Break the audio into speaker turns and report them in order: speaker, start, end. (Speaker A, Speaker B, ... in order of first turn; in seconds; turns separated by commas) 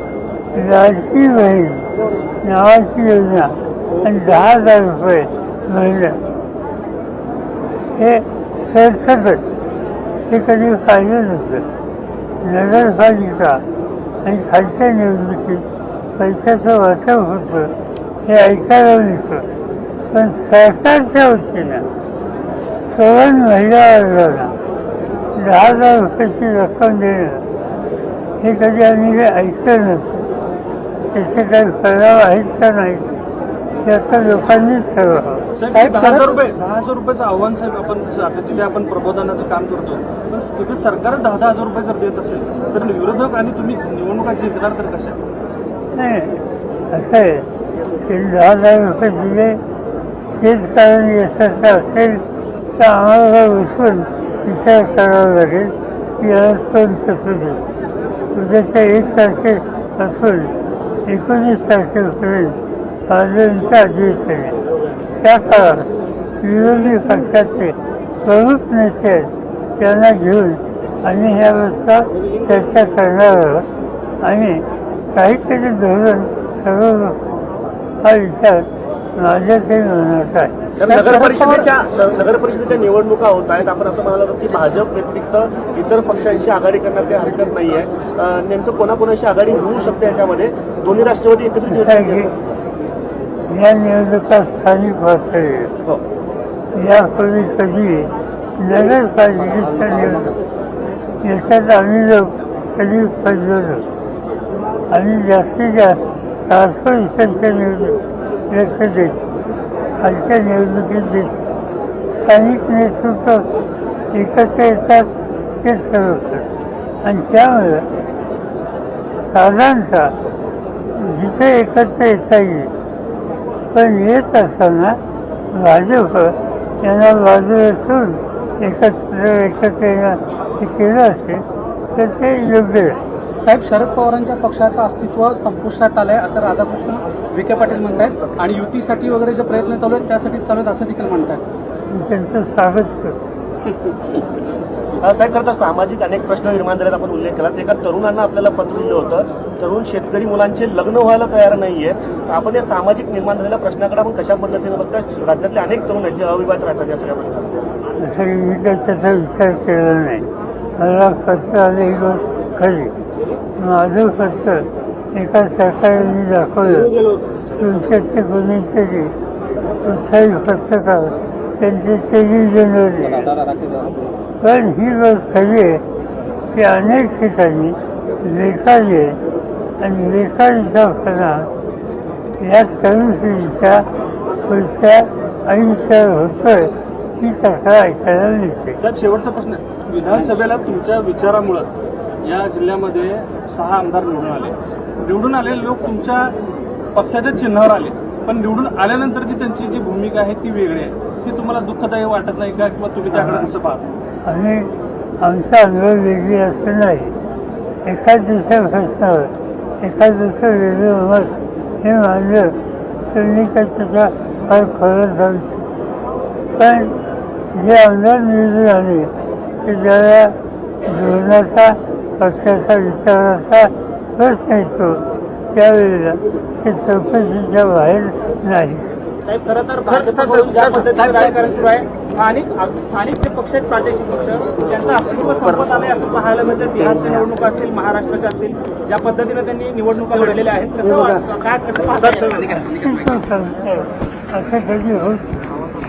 Speaker A: 0.5-6.2, Speaker A: 7.8-9.5, Speaker A: 10.3-11.7, Speaker A: 12.4-13.7, Speaker A: 14.2-19.5, Speaker A: 20.1-21.9, Speaker A: 22.8-24.6, Speaker A: 25.3-27.5, Speaker A: 28.4-30.3, Speaker A: 31.1-33.1, Speaker A: 33.8-35.5, Speaker B: 35.6-45.2, Speaker C: 35.6-36.3, Speaker A: 45.9-49.6, Speaker A: 50.3-57.7, Speaker A: 58.3-60.5, Speaker A: 61.1-64.6, Speaker A: 65.2-73.7, Speaker A: 74.2-77.2, Speaker A: 78.0-80.6, Speaker D: 80.8-92.4, Speaker C: 80.8-81.7, Speaker A: 91.7-92.3, Speaker A: 93.5-95.7, Speaker A: 96.7-100.3, Speaker A: 101.2-103.8, Speaker A: 104.9-109.3, Speaker A: 110.0-111.5, Speaker A: 112.1-113.5, Speaker A: 114.1-116.5, Speaker A: 117.0-117.9, Speaker A: 119.1-120.2, Speaker A: 120.9-122.7, Speaker A: 123.7-125.0, Speaker A: 125.5-133.0, Speaker C: 133.4-141.4, Speaker A: 141.9-143.2, Speaker D: 145.0-157.7, Speaker A: 158.0-162.9, Speaker A: 163.6-166.9, Speaker A: 167.6-169.2, Speaker A: 169.8-173.4, Speaker A: 174.4-175.8, Speaker A: 176.5-179.2, Speaker A: 179.8-181.5, Speaker A: 182.4-183.9, Speaker A: 184.4-188.8, Speaker B: 188.8-191.7, Speaker B: 192.2-196.3, Speaker B: 196.9-203.8, Speaker A: 204.2-207.2, Speaker A: 207.8-212.6, Speaker A: 213.1-215.7, Speaker A: 216.6-217.0, Speaker A: 217.5-228.9, Speaker E: 229.3-242.6, Speaker A: 242.7-245.3